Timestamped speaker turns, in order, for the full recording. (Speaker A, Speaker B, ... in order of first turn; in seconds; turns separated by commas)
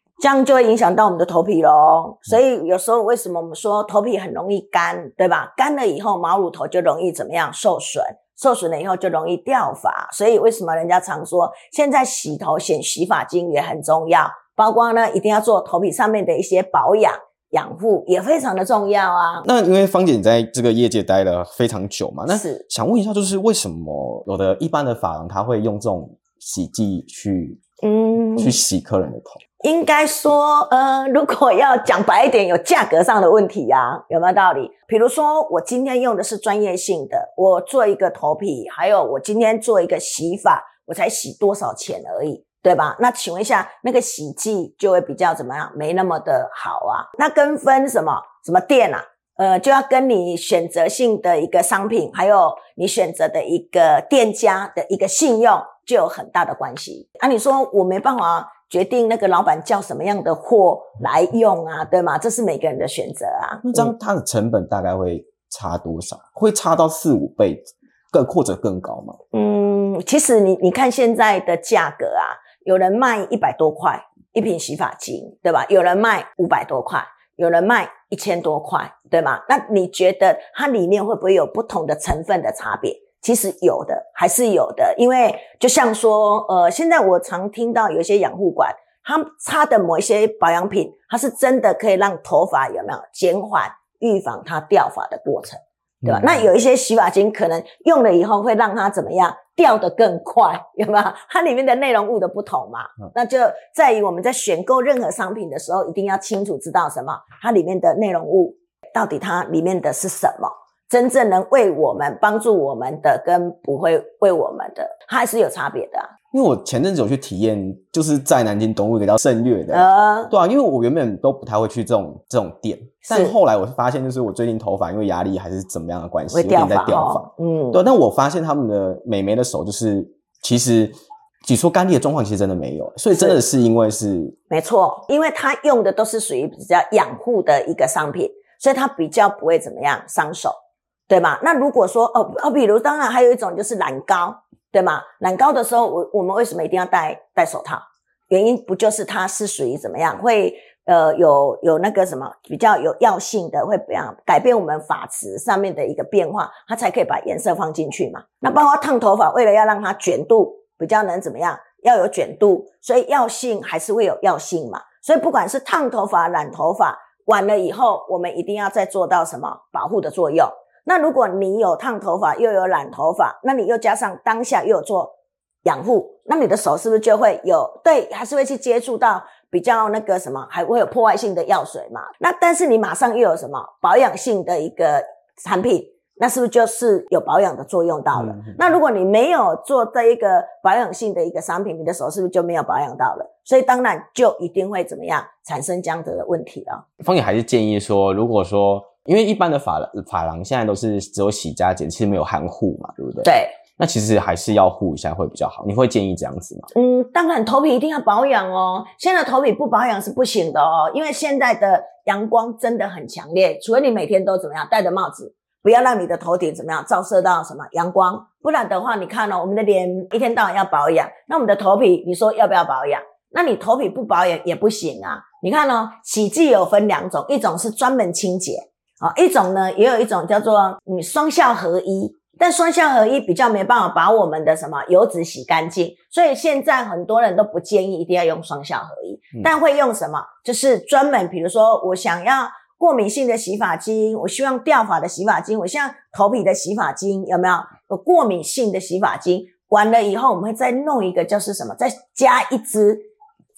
Speaker A: 0.2-19.5, Speaker B: 19.4-27.6, Speaker A: 22.3-22.6, Speaker A: 27.8-28.5, Speaker B: 28.4-29.4, Speaker A: 29.6-63.9, Speaker B: 63.6-69.2, Speaker A: 69.3-116.1, Speaker B: 96.0-96.4, Speaker B: 116.3-134.3, Speaker A: 119.7-120.3, Speaker A: 123.1-123.3, Speaker A: 126.3-127.8, Speaker A: 134.5-140.6, Speaker A: 141.1-196.8, Speaker B: 197.0-206.7, Speaker A: 203.2-203.6, Speaker A: 206.7-253.0